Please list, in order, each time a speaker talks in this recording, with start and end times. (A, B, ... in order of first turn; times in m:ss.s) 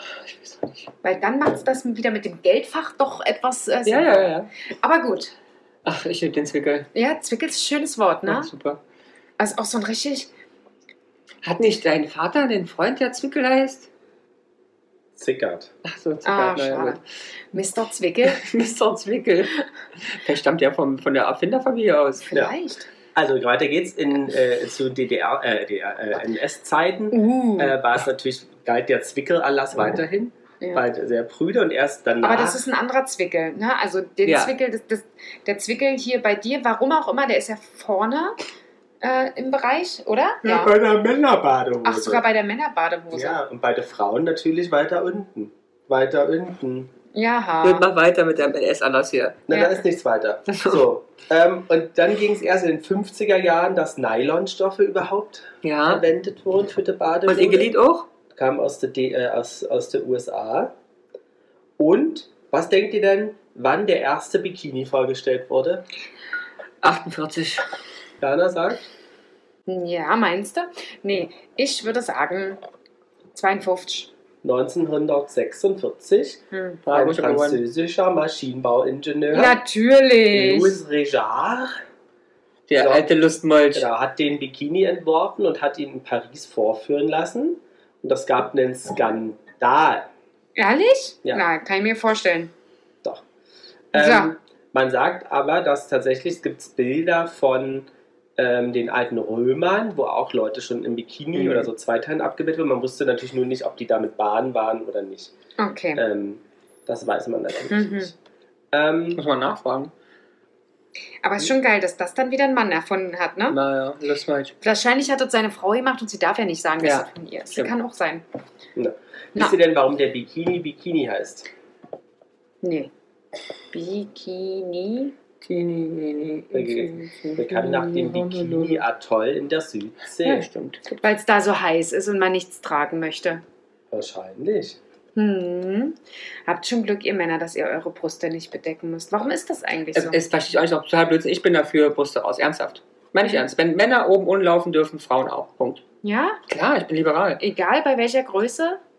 0:00.2-0:00.9 A
0:01.0-0:05.3 B
0:03.8-0:04.5 A
0:05.8-0:06.9 A
0:06.9-0:08.5 B
0:08.2-0:08.8 A
0:09.4-0:10.3 B
0:11.4-0:13.9 A
0:15.2-0:15.7 C
0:15.8-0:17.0 A
0:16.2-0:17.0 B
0:17.5-0:18.4 B
0:18.2-0:22.3 A
0:22.2-0:22.9 B
0:23.1-0:32.6 C
0:27.1-0:27.8 B
0:32.2-0:38.4 B
0:34.2-0:34.5 A
0:39.0-0:40.7 B
0:40.4-0:42.2 C
0:41.8-0:43.4 B
0:43.1-0:46.9 C
0:47.1-0:47.8 B
0:47.6-0:49.4 A
0:49.5-0:57.7 C
0:49.5-0:49.8 B
0:50.5-0:50.8 A
0:55.6-0:56.0 A
0:57.3-0:58.1 A
0:58.3-1:00.7 C
1:01.8-1:05.8 C
1:06.8-1:07.6 A
1:08.2-1:08.8 C
1:09.7-1:12.6 B
1:13.3-1:14.1 B
1:14.4-1:19.6 C
1:16.5-1:16.8 B
1:16.9-1:17.6 A
1:19.3-1:20.8 B
1:20.3-1:21.8 C
1:22.7-1:23.8 A
1:22.8-1:23.1 C
1:23.7-1:30.1 C
1:30.6-1:32.5 B
1:33.9-1:45.3 C
1:33.9-1:34.3 B
1:41.4-1:41.7 A
1:45.6-1:46.0 B
1:45.9-1:48.1 C
1:47.7-1:48.1 B
1:48.7-1:49.2 C
1:49.2-1:49.9 A
1:51.2-1:53.6 B
1:53.5-1:54.5 A
1:54.6-1:58.2 B
1:56.8-1:57.7 A
1:58.7-2:01.5 C
2:02.6-2:02.9 B
2:03.7-2:05.1 B
2:05.4-2:08.8 A
2:06.5-2:10.5 C
2:10.2-2:11.0 A
2:11.0-2:13.4 B
2:13.9-2:14.8 C
2:15.2-2:20.2 B
2:19.9-2:25.8 A
2:26.0-2:26.4 B
2:26.5-2:27.4 A
2:27.4-2:28.8 B